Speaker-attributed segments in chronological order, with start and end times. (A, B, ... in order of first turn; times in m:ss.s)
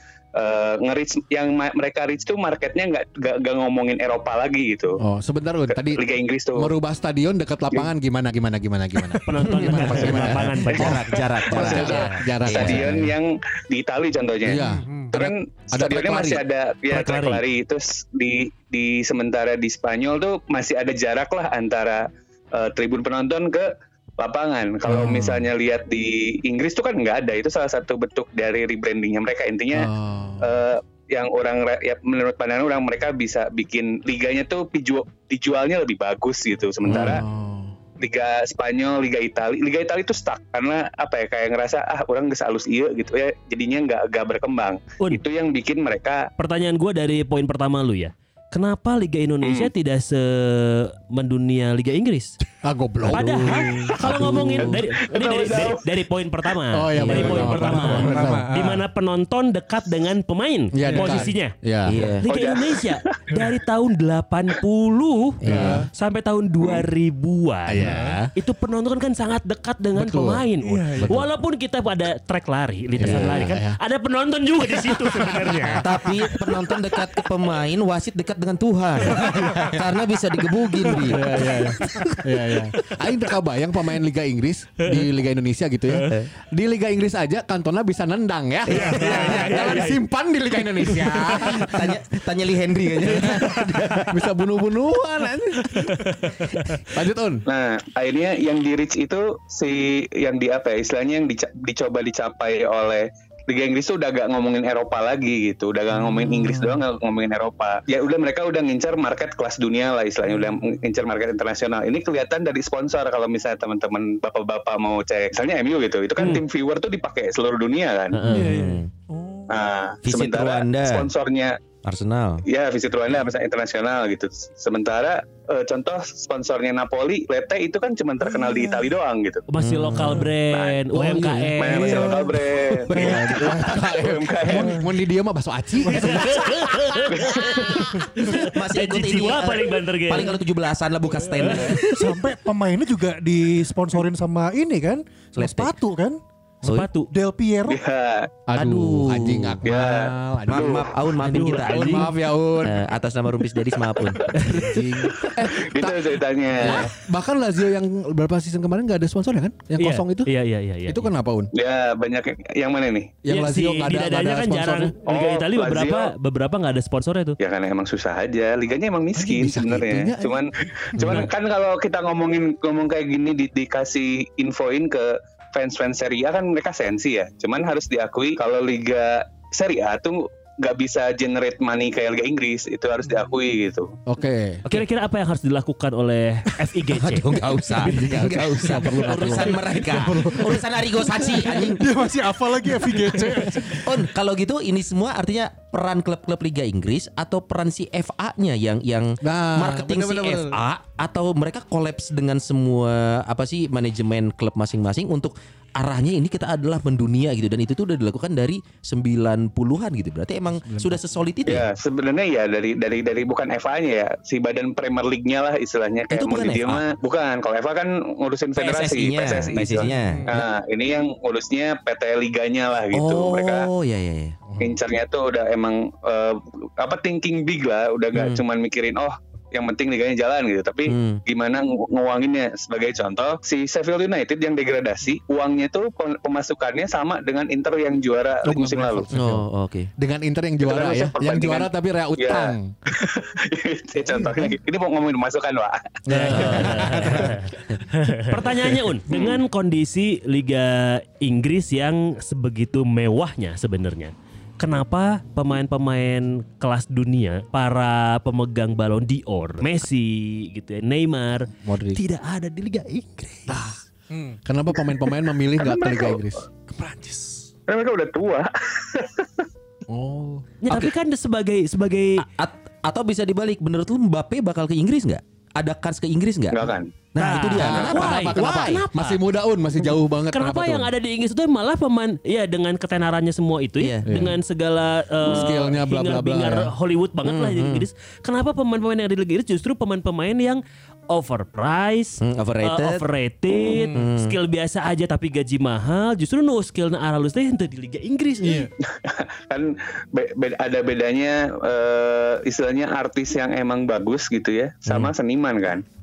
0:00.3-0:05.0 A
0:05.0-0:06.0 B
0:05.7-0:06.7 A
0:06.5-0:13.2 B
0:09.2-0:12.2 C
0:09.5-0:12.8 D
0:11.5-0:37.2 A
0:14.4-0:16.4 B
0:14.6-0:15.1 E
0:16.9-0:17.4 C
0:24.8-0:25.5 B
0:29.7-0:30.5 B
0:36.8-0:37.8 B
0:38.0-0:46.3 A
0:46.4-0:52.4 C
0:49.4-0:49.7 A
0:52.6-0:54.4 B
0:53.1-1:01.5 C
0:53.1-0:54.8 D
0:54.6-0:55.9 A
0:56.7-0:58.5 B
0:57.0-0:57.3 D
0:57.1-0:58.8 E
1:00.7-1:02.1 B
1:00.8-1:01.3 E
1:01.8-1:02.3 D
1:02.2-1:16.7 C
1:02.2-1:03.4 A
1:05.4-1:05.9 B
1:05.4-1:05.8 D
1:05.5-1:05.9 E
1:07.7-1:08.3 B
1:07.8-1:08.2 E
1:09.9-1:10.4 B
1:10.6-1:11.2 E
1:13.0-1:13.8 B
1:13.0-1:13.5 D
1:15.6-1:22.1 D
1:19.1-1:19.7 B
1:21.0-1:31.9 B
1:21.5-1:22.1 C
1:28.7-1:29.9 D
1:28.7-1:30.0 C
1:31.0-1:31.6 C
1:31.3-1:34.2 D
1:33.2-1:33.7 C
1:34.1-1:36.1 B
1:35.9-1:36.8 C
1:36.9-1:37.4 B
1:37.5-1:58.2 A
1:50.4-1:50.7 E
1:58.1-1:58.6 C
1:58.2-1:58.9 D
1:58.2-1:59.6 E
1:59.5-2:01.6 A
2:00.0-2:01.1 D
2:01.8-2:02.4 D
2:02.4-2:09.4 A
2:08.3-2:08.9 E
2:09.5-2:12.2 C
2:09.6-2:10.2 D
2:09.8-2:10.3 B
2:10.5-2:10.8 A
2:11.0-2:11.5 D
2:11.0-2:11.3 B
2:11.6-2:14.8 A
2:11.6-2:13.7 E
2:12.9-2:16.6 B
2:14.5-2:14.8 E
2:15.8-2:20.4 C
2:15.9-2:16.2 E
2:17.1-2:17.7 A
2:17.3-2:22.2 D
2:21.4-2:26.2 E
2:25.4-2:25.7 D
2:26.6-2:26.9 D
2:26.6-2:27.1 C
2:27.1-2:27.8 E
2:27.7-2:28.3 A
2:28.5-2:30.9 B
2:28.5-2:29.6 D
2:29.6-2:30.9 A
2:30.5-2:34.8 D
2:31.2-2:32.1 C
2:31.6-2:32.8 B
2:34.0-2:34.5 A
2:34.5-2:40.3 B
2:35.0-2:36.9 A
2:39.8-2:41.1 C
2:40.9-2:41.5 B
2:41.5-2:43.2 A
2:43.2-2:44.9 B
2:43.3-2:47.4 C
2:45.0-2:46.1 A
2:47.4-3:04.0 A
2:49.1-2:51.3 B
3:04.1-3:04.6 B
3:04.6-3:08.8 C
3:06.9-3:11.9 D
3:07.7-3:10.6 B
3:10.2-3:13.9 E
3:13.3-3:31.7 D
3:19.2-3:20.6 B
3:30.6-3:31.0 B
3:31.4-3:43.7 A
3:36.1-3:36.8 D
3:38.6-3:40.4 D
3:40.0-3:40.4 E
3:42.9-3:44.4 D
3:44.5-3:44.8 B
3:44.6-3:59.1 A
3:48.1-3:48.4 D
3:50.9-3:51.2 D
3:58.4-3:59.4 B
3:59.1-3:59.9 D
4:00.0-4:02.7 B
4:00.6-4:06.0 A
4:06.1-4:07.3 B
4:06.1-4:23.7 C
4:06.4-4:07.3 E
4:09.1-4:09.4 A
4:21.6-4:22.0 B
4:23.5-4:23.8 B
4:24.1-4:24.4 E
4:24.4-4:26.4 B
4:25.6-4:26.2 A
4:26.7-4:27.5 E
4:27.7-4:29.5 A
4:29.9-4:30.5 B
4:30.6-4:32.2 C
4:32.2-4:38.8 D
4:36.5-4:36.9 A
4:37.2-4:39.2 C
4:37.6-4:40.9 B
4:40.3-4:58.7 C
4:43.8-4:44.1 D
4:44.0-4:44.4 B
4:45.2-4:46.7 B
4:47.2-4:47.9 D
4:52.2-4:53.0 D
4:53.7-4:54.0 E
4:53.9-4:54.3 D
4:58.4-4:58.7 E
4:58.8-5:05.8 A
5:04.9-5:05.1 D